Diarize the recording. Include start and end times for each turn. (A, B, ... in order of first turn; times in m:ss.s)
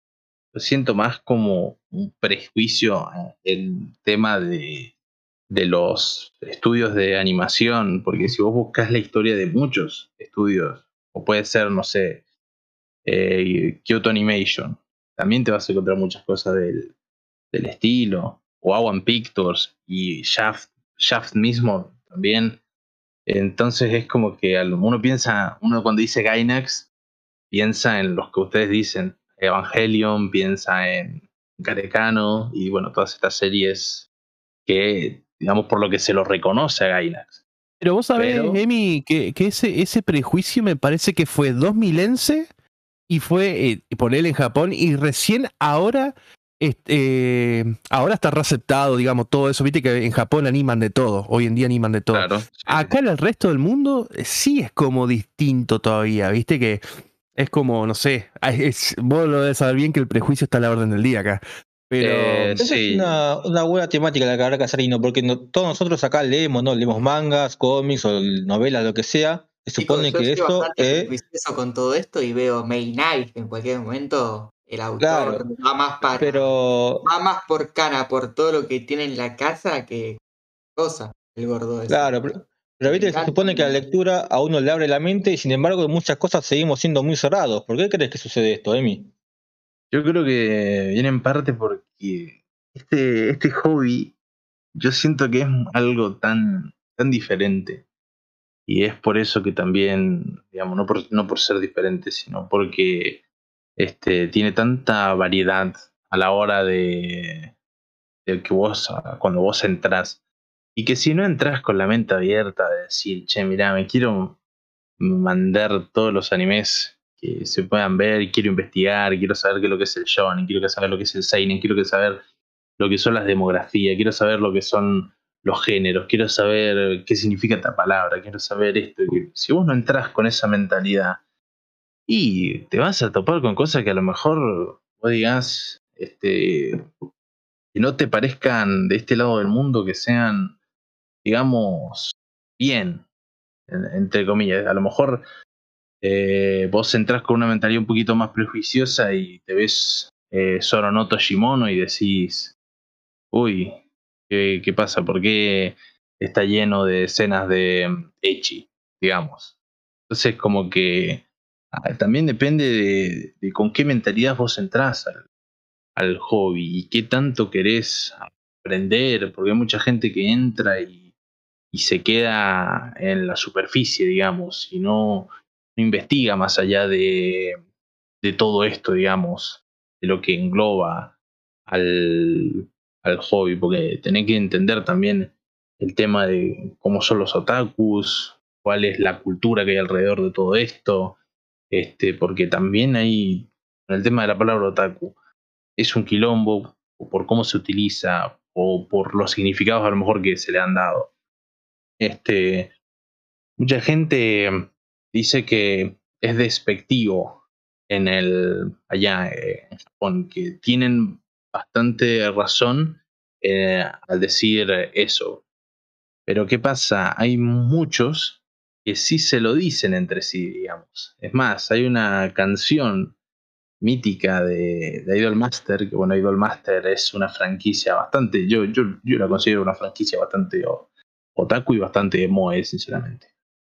0:00.5-0:04.9 A
0:05.5-0:12.2 A
0:13.0-0:16.9 A
0:17.5-0:22.6 A
0:23.3-0:26.9 A
0:27.5-0:34.1 A
0:34.6-0:37.4 A
0:37.8-0:42.5 B
0:38.1-0:38.6 A
0:43.1-0:56.8 B
0:52.1-0:52.9 A
0:57.4-1:02.6 B
1:02.0-1:03.2 A
1:02.6-1:11.1 C
1:09.8-1:20.2 D
1:15.0-1:15.5 C
1:16.1-1:17.0 C
1:20.8-1:22.3 D
1:21.9-1:29.1 C
1:22.8-1:23.9 D
1:29.9-1:34.1 A
1:34.8-1:37.8 A
1:38.7-1:43.2 A
1:43.8-1:47.5 A
1:48.2-1:50.2 A
1:50.8-1:54.4 A
1:55.0-2:02.2 A
2:02.8-2:11.2 A
2:12.1-2:16.8 A
2:17.7-2:20.5 A
2:21.2-2:23.0 A
2:23.7-2:25.2 A
2:26.0-2:32.5 A
2:33.3-2:33.8 A
2:34.3-2:39.5 A
2:40.1-2:45.2 A
2:46.0-2:51.0 A
2:51.7-2:57.6 A
2:58.2-3:01.1 A
3:01.7-3:11.2 A
3:11.7-3:15.1 A
3:15.8-3:21.1 A
3:22.0-3:22.7 A
3:23.6-3:35.4 A
3:36.2-3:43.2 A
3:43.8-3:53.2 A